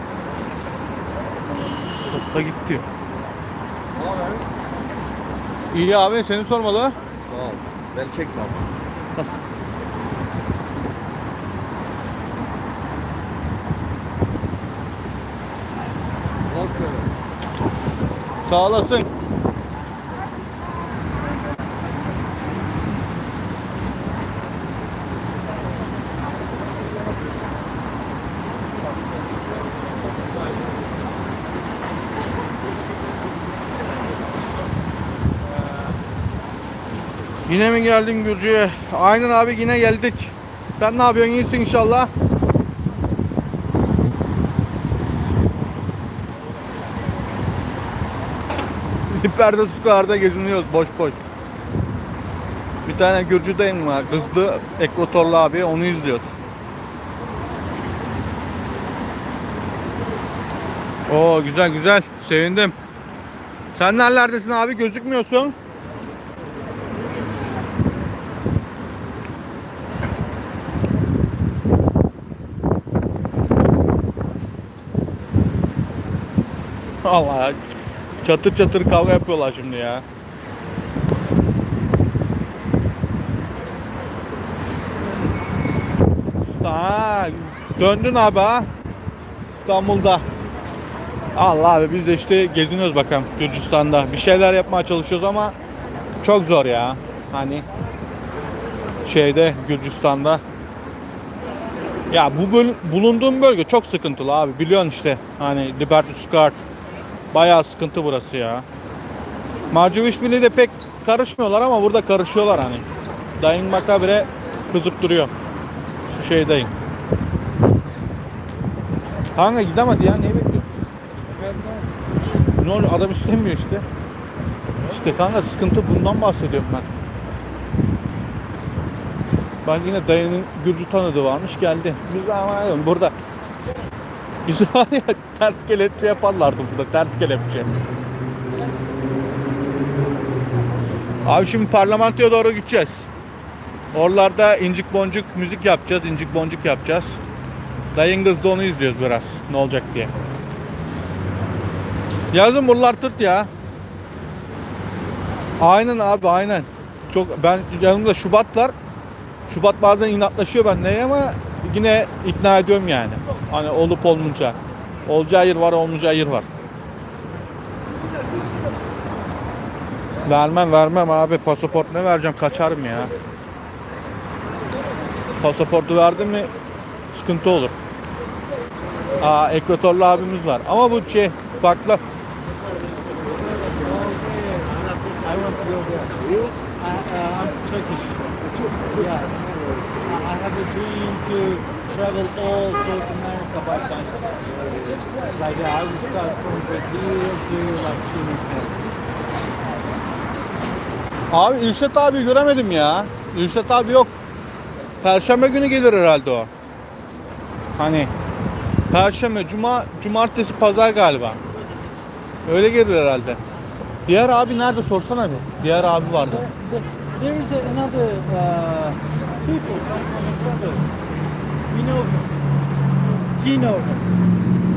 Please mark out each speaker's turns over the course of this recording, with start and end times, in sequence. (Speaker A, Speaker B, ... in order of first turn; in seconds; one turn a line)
Speaker A: 2.1-2.9
Speaker B: 4.0-4.5
Speaker A: 5.7-7.0
Speaker B: 7.2-8.7
Speaker B: 16.4-17.1
Speaker A: 18.5-19.1
Speaker A: 37.5-42.1
Speaker A: 49.1-51.2
Speaker A: 52.9-56.4
Speaker A: 61.1-62.8
Speaker A: 63.8-65.6
Speaker A: 77.0-77.6
Speaker A: 78.2-80.0
Speaker A: 86.5-88.7
Speaker A: 89.5-90.2
Speaker A: 91.3-95.5
Speaker A: 96.2-97.7
Speaker A: 99.0-100.4
Speaker A: 102.1-106.6
Speaker A: 107.3-108.7
Speaker A: 109.7-112.9
Speaker A: 113.4-115.3
Speaker A: 116.1-116.7
Speaker A: 119.4-120.7
Speaker C: 121.3-121.9
Speaker A: 122.6-123.8
Speaker A: 124.9-126.9
Speaker A: 129.6-133.1
Speaker A: 134.5-137.7
Speaker A: 141.2-143.1
Speaker A: 143.9-147.2
Speaker A: 147.9-150.1
Speaker A: 152.3-153.5
Speaker A: 155.6-158.7
Speaker A: 159.5-166.5
Speaker A: 170.2-173.1
Speaker A: 175.4-176.5
Speaker A: 177.1-177.7
Speaker A: 179.2-182.0
Speaker B: 183.5-183.8
Speaker C: 183.8-186.2
Speaker B: 186.1-186.6
Speaker C: 186.8-188.3
Speaker B: 188.4-190.2
Speaker C: 188.9-189.4
Speaker C: 190.0-198.8
Speaker A: 201.3-204.1
Speaker A: 205.0-206.5
Speaker A: 207.8-208.1
Speaker A: 208.9-211.4
Speaker A: 212.5-213.4
Speaker A: 214.1-216.4
Speaker C: 216.1-220.9
Speaker C: 221.7-222.3
Speaker C: 223.4-224.1